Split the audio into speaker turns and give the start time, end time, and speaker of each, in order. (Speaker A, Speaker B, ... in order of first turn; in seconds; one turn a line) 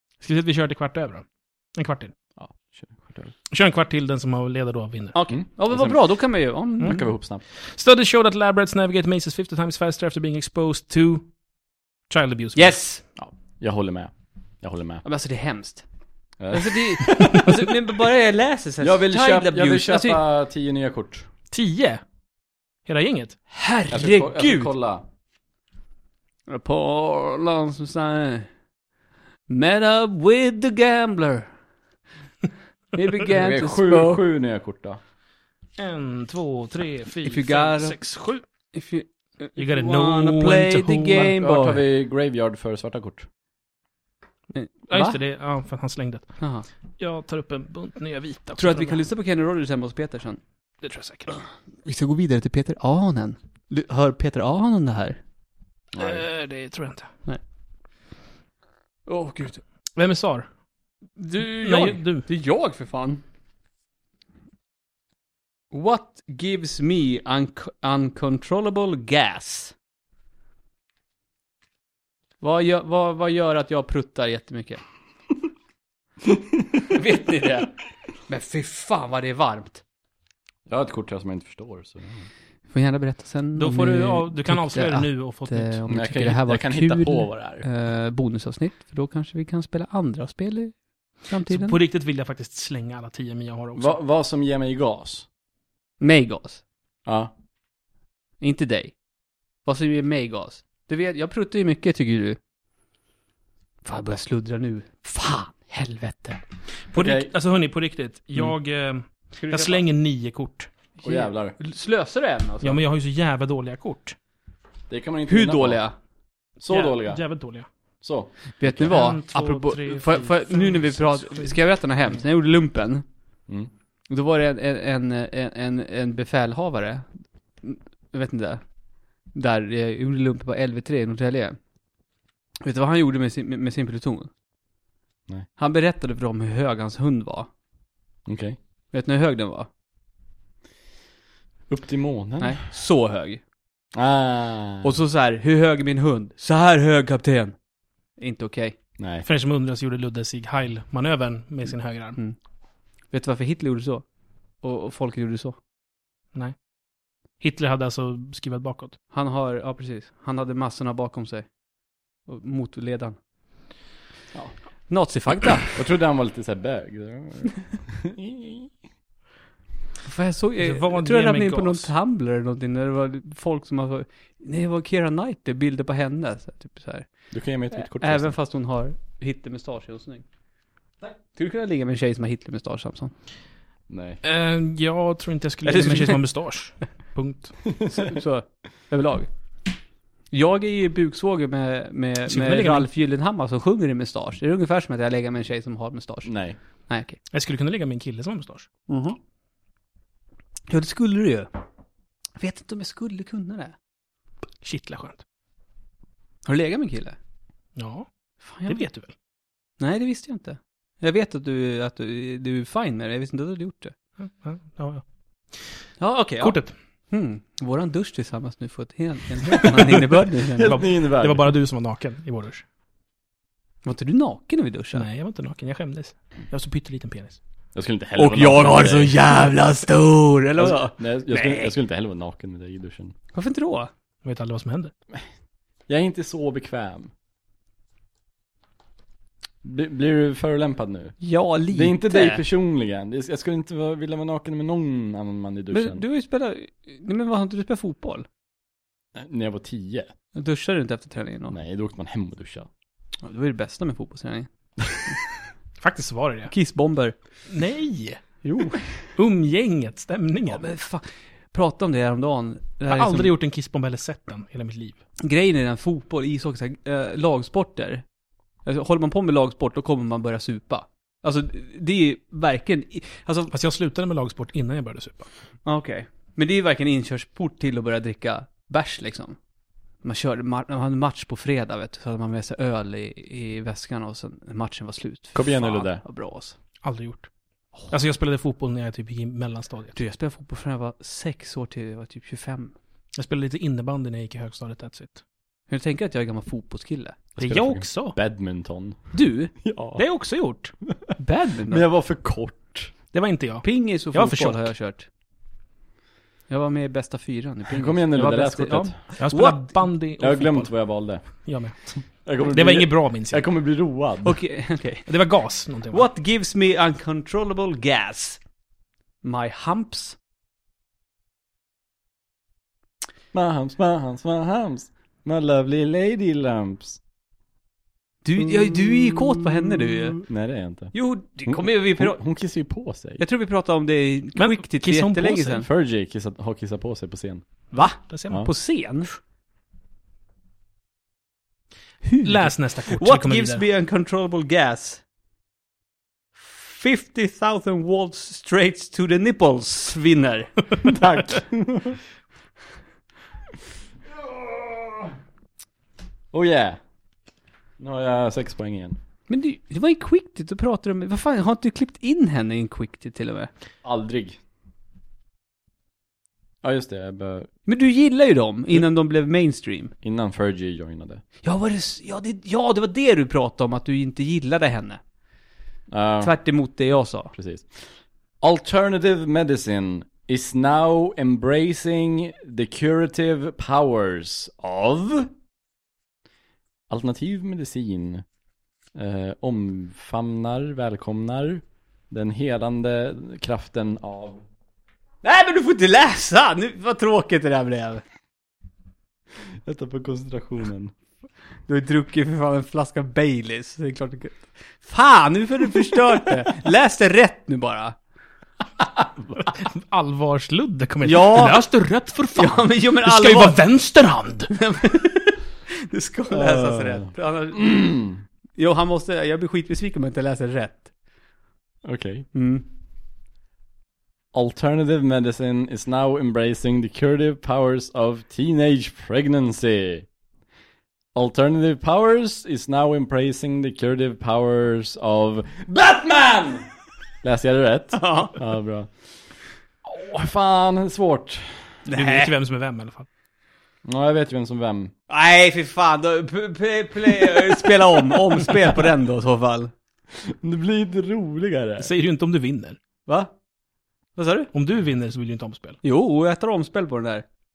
Speaker A: 0.2-2.1
Speaker B: 2.4-3.3
Speaker A: 3.5-5.1
Speaker C: 5.1-7.0
Speaker B: 5.3-6.0
Speaker B: 6.8-7.4
Speaker A: 7.7-11.3
Speaker A: 12.1-12.8
Speaker C: 12.5-13.0
Speaker B: 13.2-15.0
Speaker C: 15.0-15.8
Speaker B: 16.4-17.6
Speaker C: 16.5-20.2
Speaker B: 18.8-21.3
Speaker A: 21.5-22.0
Speaker A: 22.9-23.4
Speaker C: 23.5-24.7
Speaker B: 23.9-25.1
Speaker C: 26.5-28.5
Speaker C: 29.5-31.5
Speaker C: 32.9-34.2
Speaker B: 33.3-35.0
Speaker A: 35.8-38.4
Speaker C: 37.2-38.0
Speaker C: 38.7-41.8
Speaker A: 39.6-41.3
Speaker B: 41.1-43.3
Speaker C: 44.5-45.2
Speaker A: 44.9-46.3
Speaker C: 46.4-46.6
Speaker A: 47.0-49.0
Speaker C: 48.6-50.4
Speaker A: 50.8-51.3
Speaker C: 51.8-55.2
Speaker B: 55.9-56.2
Speaker A: 56.0-57.1
Speaker C: 59.1-59.6
Speaker A: 60.0-60.5
Speaker C: 61.2-63.2
Speaker A: 61.6-62.2
Speaker C: 65.7-69.7
Speaker C: 72.4-74.8
Speaker C: 76.9-77.8
Speaker C: 78.3-79.8
Speaker B: 80.7-82.3
Speaker C: 82.7-91.8
Speaker A: 83.5-85.8
Speaker B: 85.9-87.6
Speaker A: 91.5-94.0
Speaker B: 93.8-95.2
Speaker C: 96.0-96.6
Speaker B: 97.0-97.3
Speaker C: 98.4-98.9
Speaker C: 99.6-102.4
Speaker C: 103.8-106.4
Speaker A: 106.9-110.7
Speaker B: 106.9-107.3
Speaker C: 109.3-109.8
Speaker C: 111.0-112.8
Speaker B: 111.0-111.5
Speaker A: 112.6-114.2
Speaker B: 114.9-115.8
Speaker C: 115.3-115.9
Speaker B: 116.6-117.2
Speaker A: 116.7-117.7
Speaker B: 118.0-118.3
Speaker C: 118.6-123.0
Speaker A: 118.8-121.5
Speaker C: 124.1-127.1
Speaker C: 127.6-128.6
Speaker C: 129.3-131.6
Speaker C: 132.6-134.3
Speaker C: 135.6-137.5
Speaker B: 138.2-138.6
Speaker C: 138.9-139.7
Speaker B: 141.7-142.6
Speaker C: 142.4-143.4
Speaker B: 143.9-144.9
Speaker C: 144.8-147.6
Speaker C: 148.2-148.8
Speaker B: 149.0-149.2
Speaker A: 149.2-152.2
Speaker C: 153.1-154.0
Speaker C: 154.6-155.6
Speaker A: 157.4-159.0
Speaker C: 159.1-161.5
Speaker C: 162.2-163.2
Speaker C: 164.9-165.8
Speaker B: 165.7-168.7
Speaker C: 170.0-177.1
Speaker A: 170.6-171.9
Speaker B: 177.3-178.3
Speaker C: 177.7-180.2
Speaker C: 181.3-183.1
Speaker B: 183.9-184.2
Speaker A: 184.2-187.7
Speaker C: 185.6-186.2
Speaker C: 187.8-189.3
Speaker C: 190.3-196.3
Speaker A: 192.3-192.9
Speaker B: 196.2-196.6
Speaker C: 196.9-197.2
Speaker A: 197.3-198.7
Speaker C: 198.9-199.2
Speaker C: 200.7-201.5
Speaker C: 202.4-203.7
Speaker A: 204.6-205.2
Speaker C: 206.4-207.2
Speaker A: 207.8-208.1
Speaker C: 208.4-208.8
Speaker A: 208.7-209.1
Speaker C: 209.8-213.9
Speaker A: 214.2-215.0
Speaker C: 216.0-216.6
Speaker A: 216.4-216.7
Speaker C: 217.1-220.8
Speaker A: 219.7-220.0
Speaker B: 220.5-221.5
Speaker A: 220.6-222.6
Speaker C: 223.8-225.0
Speaker A: 224.9-227.4
Speaker B: 227.7-229.2
Speaker C: 228.2-231.7
Speaker B: 230.6-233.1
Speaker C: 233.3-233.9
Speaker A: 234.2-234.9
Speaker B: 235.9-237.1
Speaker B: 239.6-241.2
Speaker C: 241.2-242.4
Speaker B: 241.7-246.0
Speaker C: 245.7-248.2
Speaker B: 249.1-250.1
Speaker C: 250.3-251.5
Speaker B: 251.5-252.7
Speaker C: 253.2-254.5
Speaker A: 255.8-256.5
Speaker C: 256.5-257.1
Speaker A: 257.5-258.2
Speaker C: 258.4-258.8
Speaker A: 259.1-260.6
Speaker C: 260.4-263.3
Speaker A: 262.9-265.0
Speaker C: 265.2-268.0
Speaker C: 268.6-273.5
Speaker A: 273.5-275.3
Speaker C: 275.6-279.4
Speaker C: 280.0-286.6
Speaker B: 285.3-286.0
Speaker A: 286.8-287.3
Speaker A: 287.9-289.9
Speaker C: 289.9-292.7
Speaker A: 293.1-295.2
Speaker C: 295.7-297.2
Speaker A: 297.4-298.2
Speaker B: 297.4-300.0
Speaker C: 299.1-299.5
Speaker A: 299.9-300.7
Speaker C: 301.2-301.8
Speaker B: 301.7-302.9
Speaker A: 303.1-304.7
Speaker C: 303.6-305.1
Speaker C: 306.5-309.7
Speaker B: 307.7-309.0
Speaker A: 309.2-313.4
Speaker B: 310.2-314.4
Speaker C: 314.2-315.1
Speaker A: 315.1-316.1
Speaker C: 315.9-318.4
Speaker C: 319.2-320.2
Speaker B: 323.3-327.0
Speaker C: 328.2-330.2
Speaker B: 328.4-329.4
Speaker B: 330.1-330.9
Speaker C: 330.9-332.2
Speaker B: 331.5-333.2
Speaker C: 333.2-335.7
Speaker A: 334.4-335.6
Speaker B: 335.6-337.4
Speaker C: 337.7-339.1
Speaker A: 338.1-338.4
Speaker C: 342.0-345.0
Speaker A: 342.2-343.6
Speaker C: 346.4-351.2
Speaker B: 350.8-352.0
Speaker B: 354.1-355.1
Speaker B: 356.3-356.8
Speaker B: 357.8-359.0
Speaker C: 359.3-363.5
Speaker B: 363.8-364.4
Speaker B: 366.6-367.5
Speaker C: 367.7-369.9
Speaker B: 370.0-371.2
Speaker C: 371.4-375.0
Speaker B: 375.9-376.3
Speaker C: 376.2-377.3
Speaker B: 377.3-377.9
Speaker B: 378.4-385.3
Speaker B: 386.9-388.2
Speaker B: 388.9-394.4
Speaker C: 395.2-398.0
Speaker B: 399.6-400.9
Speaker C: 401.7-407.9
Speaker B: 409.0-409.3
Speaker A: 409.5-414.5
Speaker C: 411.0-411.6
Speaker C: 412.3-413.6
Speaker C: 414.5-417.9
Speaker B: 416.3-418.2
Speaker C: 418.6-420.9
Speaker B: 421.8-422.2
Speaker C: 422.3-422.6
Speaker B: 424.3-430.1
Speaker B: 431.1-436.7
Speaker B: 437.2-438.9
Speaker C: 437.9-438.4
Speaker B: 439.8-441.8
Speaker C: 441.9-442.3
Speaker A: 441.9-443.1
Speaker B: 443.8-444.9
Speaker C: 445.1-449.7
Speaker B: 450.2-451.9
Speaker A: 451.8-452.8
Speaker C: 453.1-453.3
Speaker C: 454.1-454.5
Speaker A: 454.5-455.8
Speaker C: 455.8-457.2